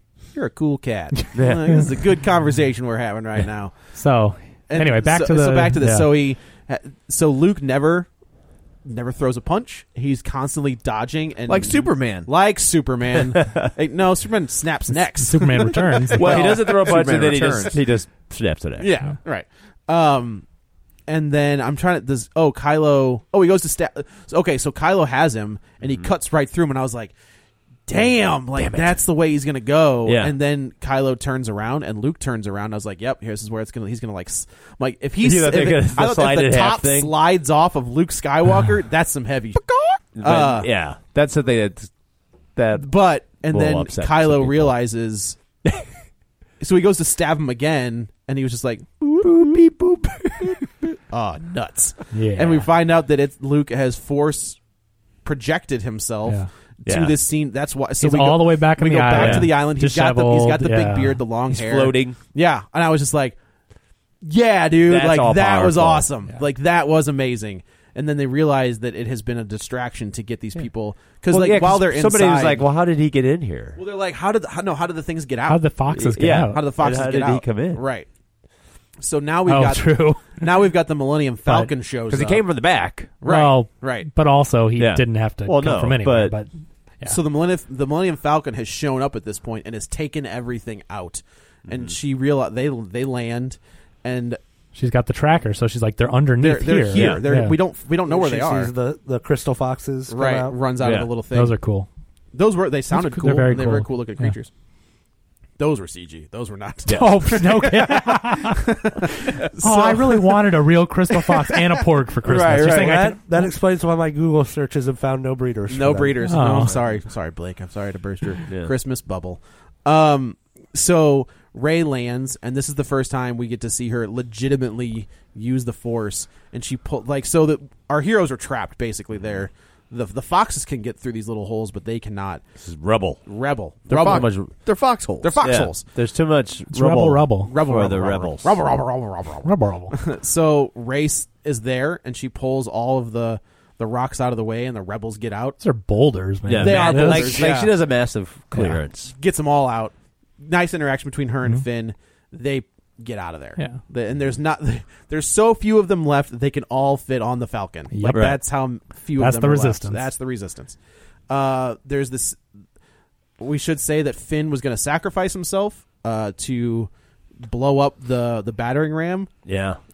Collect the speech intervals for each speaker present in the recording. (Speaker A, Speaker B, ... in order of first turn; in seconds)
Speaker A: 0.3-3.8, 4.7-8.1, 8.8-16.9, 18.8-20.4, 21.1-27.1, 27.9-40.7, 42.7-45.4, 46.6-49.5, 51.1-54.6, 55.2-63.4, 64.2-72.7, 73.8-75.8, 76.4-78.1, 79.0-82.5, 83.2-84.1, 87.0-94.4, 96.4-98.7, 100.1-101.6, 102.3-104.5, 105.6-110.4, 111.3-111.6, 115.7-132.4, 133.2-134.3, 135.2-135.8, 137.4-145.6, 146.6-147.8, 149.1-160.8, 161.3-162.4, 163.4-166.9, 167.4-169.3
Speaker B: 1.3-1.8, 13.3-13.7, 16.2-18.9, 25.8-26.1, 28.0-29.0, 30.1-30.3, 35.2-37.1, 40.1-41.9, 42.5-44.8, 49.2-50.9, 56.9-57.2, 59.1-59.5, 61.5-62.2, 64.8-66.1, 71.3-73.8, 75.9-77.8, 82.1-83.2, 84.8-86.3, 91.7-91.9, 96.9-97.2, 100.8-101.1, 106.9-107.1, 112.2-113.1, 118.5-118.7, 132.6-133.2, 133.9-134.5, 135.4-138.6, 146.5-149.1, 158.1-158.4, 169.4-169.8
Speaker C: 3.9-6.1, 14.9-16.3, 52.1-52.7, 58.0-61.2, 75.5-76.6, 79.5-80.5, 81.4-81.7, 83.2-86.5, 94.7-97.6, 101.3-101.9, 102.9-104.3, 106.9-108.6, 109.6-113.5, 116.2-116.7, 136.7-137.5, 139.4-139.9, 145.6-147.5, 148.5-148.8, 157.9-158.3, 159.2-160.1
Speaker D: 11.5-12.3, 16.2-17.8, 133.9-135.4
Speaker E: 98.1-100.5, 112.5-116.3